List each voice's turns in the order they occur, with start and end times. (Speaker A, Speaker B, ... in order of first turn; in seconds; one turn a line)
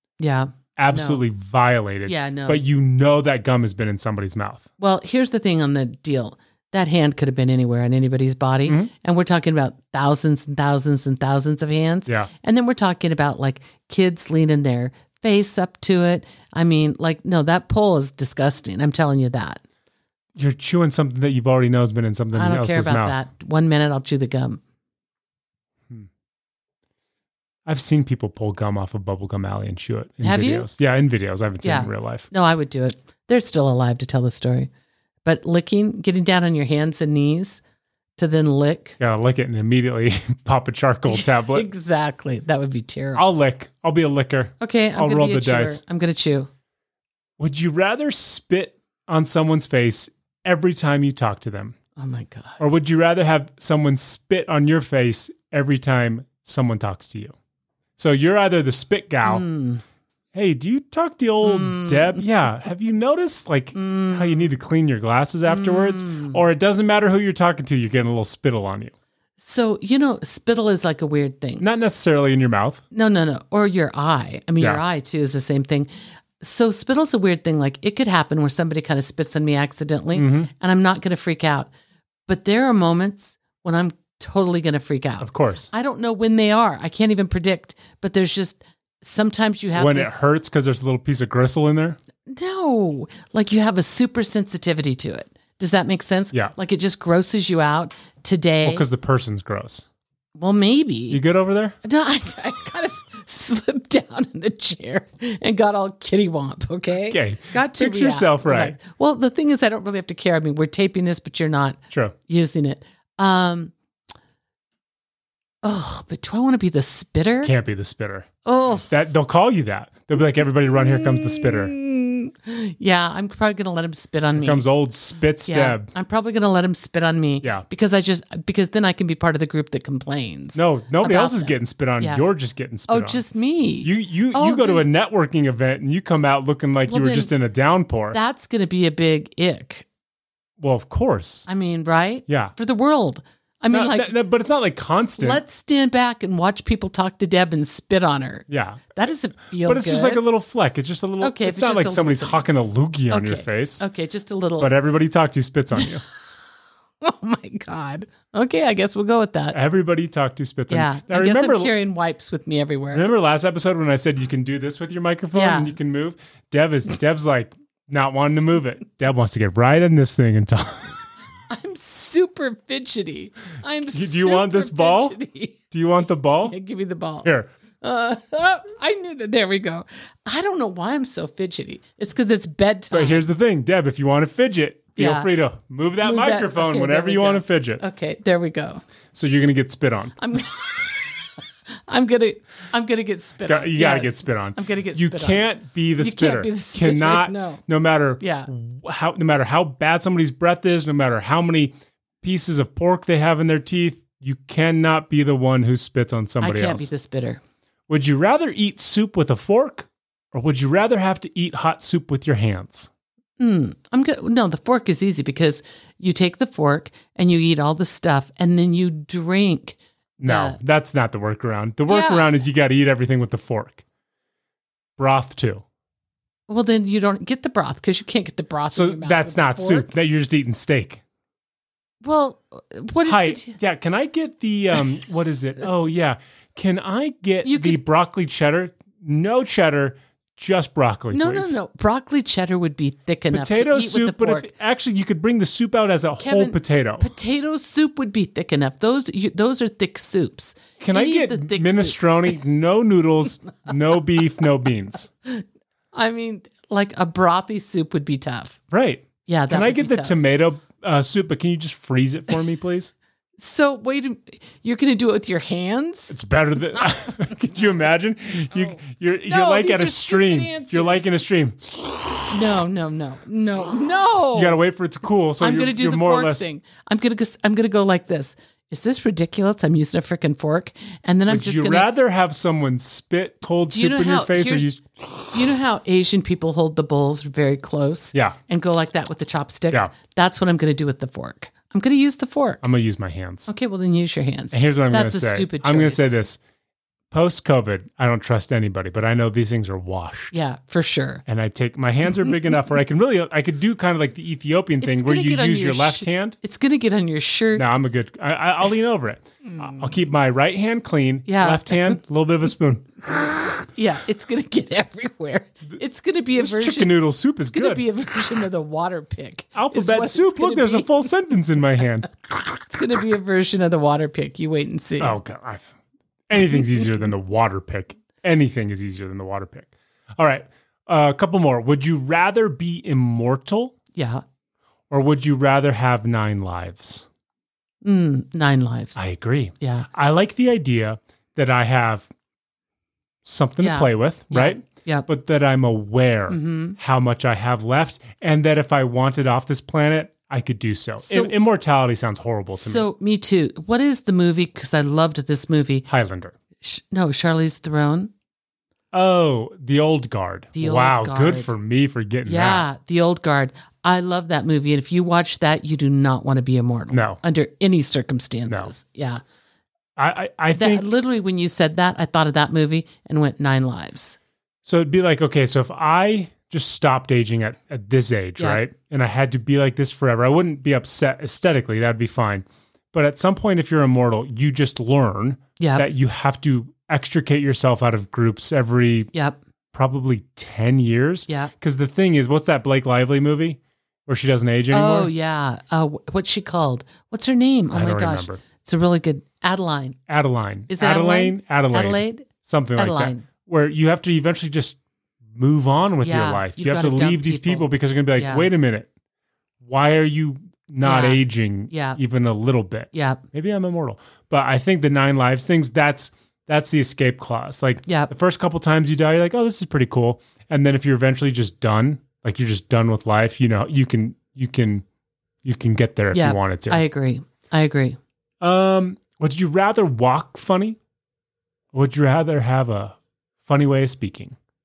Speaker A: 0.2-1.2
Speaker B: 0.8-4.7
Speaker A: 2.1-2.6
Speaker A: 4.8-19.6
Speaker B: 8.7-8.9
Speaker B: 20.4-23.2
Speaker A: 22.3-24.6
Speaker B: 27.7-32.3
Speaker A: 30.2-30.7
Speaker A: 31.6-34.7
Speaker A: 35.2-37.6
Speaker A: 38.2-39.0
Speaker B: 39.0-41.7
Speaker A: 41.1-43.2
Speaker B: 43.2-45.8
Speaker A: 44.6-46.5
Speaker B: 47.4-51.8
Speaker A: 52.0-52.6
Speaker B: 52.6-57.3
Speaker B: 58.0-59.5
Speaker A: 59.2-59.8
Speaker B: 60.3-68.9
Speaker A: 61.4-62.2
Speaker A: 63.8-64.5
Speaker A: 65.5-66.4
Speaker A: 69.4-71.6
Speaker B: 71.6-72.8
Speaker A: 72.9-75.9
Speaker A: 76.4-81.7
Speaker B: 80.1-80.5
Speaker A: 82.3-90.2
Speaker B: 85.2-85.7
Speaker B: 89.8-92.0
Speaker A: 92.2-98.8
Speaker B: 98.6-99.9
Speaker A: 100.4-101.2
Speaker B: 101.1-101.8
Speaker A: 101.8-113.7
Speaker B: 107.1-108.8
Speaker A: 115.6-117.5
Speaker B: 117.4-118.3
Speaker A: 118.5-118.9
Speaker B: 118.9-121.8
Speaker A: 120.7-124.7
Speaker B: 124.4-125.9
Speaker A: 125.5-132.2
Speaker B: 130.6-133.2
Speaker A: 132.9-134.9
Speaker B: 133.8-138.2
Speaker A: 136.9-137.3
Speaker A: 138.1-139.8
Speaker B: 140.6-141.5
Speaker A: 141.5-144.2
Speaker B: 142.3-142.5
Speaker B: 143.7-145.4
Speaker A: 145.2-150.2
Speaker B: 148.5-149.0
Speaker B: 149.6-153.8
Speaker A: 151.2-152.4
Speaker A: 153.1-154.7
Speaker B: 154.6-156.0
Speaker A: 157.0-159.6
Speaker B: 159.5-161.7
Speaker A: 160.7-163.1
Speaker B: 162.9-171.0
Speaker A: 165.3-165.8
Speaker A: 171.5-175.6
Speaker B: 173.9-175.2
Speaker B: 175.7-176.6
Speaker A: 176.4-177.3
Speaker B: 177.2-177.5
Speaker A: 177.8-183.3
Speaker B: 182.9-187.8
Speaker A: 185.0-185.3
Speaker A: 186.0-188.8
Speaker B: 189.1-190.2
Speaker A: 190.2-191.1
Speaker A: 191.7-195.5
Speaker B: 193.4-206.9
Speaker A: 196.0-197.6
Speaker A: 198.2-198.5
Speaker A: 206.4-207.4
Speaker B: 207.9-212.9
Speaker A: 213.4-220.6
Speaker B: 220.2-223.8
Speaker A: 221.9-222.3
Speaker B: 225.0-225.6
Speaker A: 226.5-229.9
Speaker B: 228.7-231.0
Speaker A: 232.0-233.6
Speaker B: 233.1-241.6
Speaker A: 237.4-237.8
Speaker A: 241.1-244.5
Speaker B: 243.3-247.1
Speaker A: 246.2-252.4
Speaker B: 250.8-255.1
Speaker A: 255.3-258.6
Speaker B: 258.7-262.9
Speaker A: 259.3-260.2
Speaker A: 263.4-266.2
Speaker B: 266.1-272.3
Speaker A: 266.8-267.3
Speaker A: 268.5-271.2
Speaker A: 272.3-274.6
Speaker B: 274.3-276.5
Speaker A: 275.4-281.9
Speaker B: 281.3-285.4
Speaker A: 283.7-284.7
Speaker A: 285.3-292.6
Speaker B: 292.6-293.5
Speaker A: 293.5-296.1
Speaker B: 294.5-296.4
Speaker B: 297.1-300.3
Speaker A: 300.3-301.2
Speaker B: 301.3-306.4
Speaker A: 304.8-307.6
Speaker B: 307.6-313.1
Speaker A: 311.3-312.0
Speaker A: 313.6-321.0
Speaker B: 316.4-317.8
Speaker B: 319.6-322.1
Speaker A: 322.6-325.2
Speaker B: 325.0-325.7
Speaker B: 326.3-333.8
Speaker A: 333.9-334.2
Speaker B: 334.9-337.1
Speaker A: 337.8-339.0
Speaker B: 338.9-342.1
Speaker A: 339.6-339.9
Speaker B: 343.2-352.8
Speaker A: 343.6-345.1
Speaker A: 346.3-346.8
Speaker A: 351.0-351.4
Speaker A: 352.6-355.9
Speaker B: 355.9-356.4
Speaker A: 356.6-358.1
Speaker B: 358.9-362.7
Speaker A: 360.6-361.5
Speaker A: 362.2-369.2
Speaker B: 366.9-367.2
Speaker B: 370.0-370.9
Speaker A: 370.6-374.2
Speaker B: 374.6-389.1
Speaker A: 385.6-385.9
Speaker A: 389.1-389.4
Speaker B: 389.7-395.1
Speaker A: 394.7-400.0
Speaker B: 397.7-398.4
Speaker B: 400.1-404.8
Speaker A: 400.7-403.3
Speaker B: 405.4-408.9
Speaker A: 406.0-408.5
Speaker B: 409.6-424.9
Speaker A: 410.8-412.0
Speaker A: 412.9-413.2
Speaker A: 417.9-418.1
Speaker B: 425.4-426.8
Speaker A: 426.1-428.0
Speaker B: 428.4-430.8
Speaker B: 431.7-434.4